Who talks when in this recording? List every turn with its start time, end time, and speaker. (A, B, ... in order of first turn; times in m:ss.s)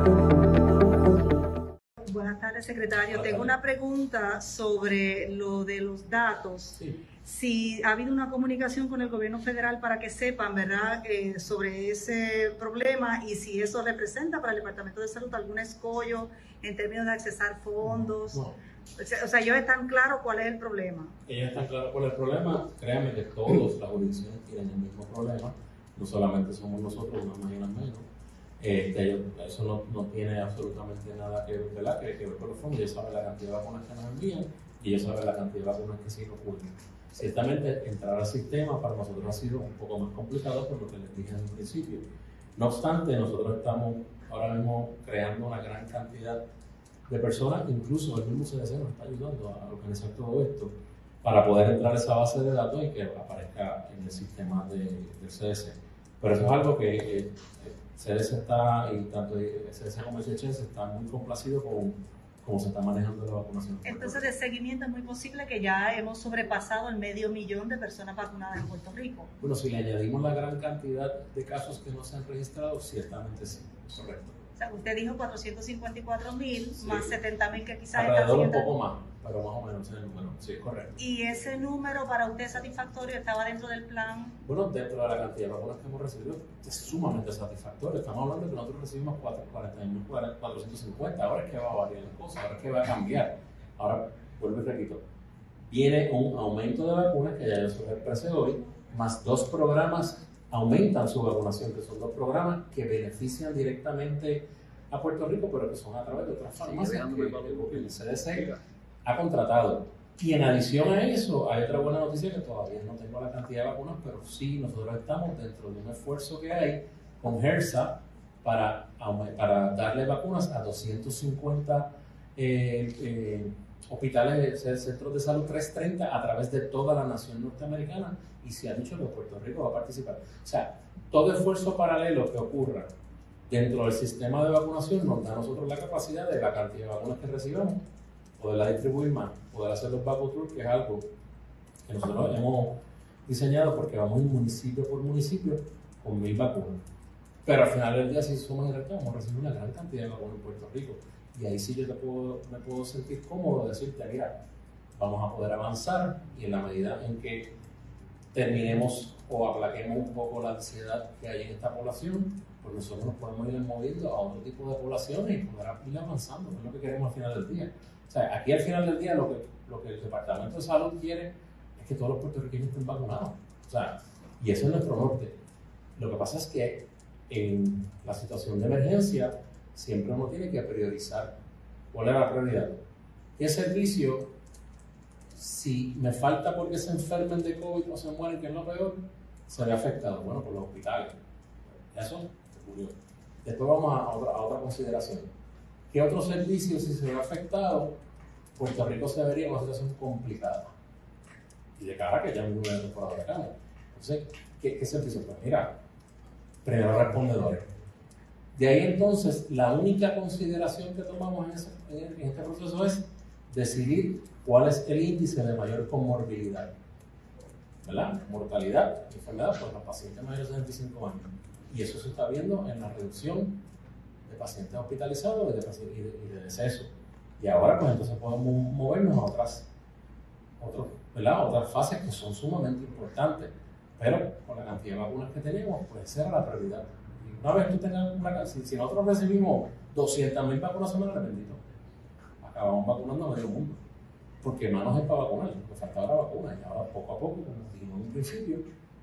0:02.0-0:18.4 A
0:03.1-0:03.5 B
0:06.8-0:07.0 B
0:17.8-0:18.6 B
0:19.0-0:21.1 A
0:21.3-0:28.1 B
0:28.6-0:46.4 B
0:47.1-1:04.3 B
1:03.8-1:09.3 A
1:09.4-1:14.4 B
1:14.6-1:18.7 A
1:16.8-1:17.2 B
1:17.9-1:21.0 B
1:21.0-1:24.4 A
1:24.4-1:35.0 B
1:35.7-1:48.5 B
1:49.0-2:12.9 B
2:13.5-2:17.8 B
2:18.4-2:21.1 B
2:21.8-2:26.8 B
2:27.4-2:34.4 B
2:35.0-2:37.5 B
2:38.3-2:55.4 B
2:56.0-3:01.4 B
3:01.9-3:02.8 B
3:03.4-3:04.3 B
3:05.3-3:11.2 B
3:11.9-3:15.3 B
3:15.9-3:18.0 B
3:18.6-3:20.7 B
3:21.8-3:25.8 B
3:26.6-3:27.7 B
3:28.5-3:36.7 B
3:37.8-3:43.6 B
3:44.3-3:49.7 B
3:50.6-4:01.6 B
4:02.4-4:03.8 B
4:04.4-4:08.7 B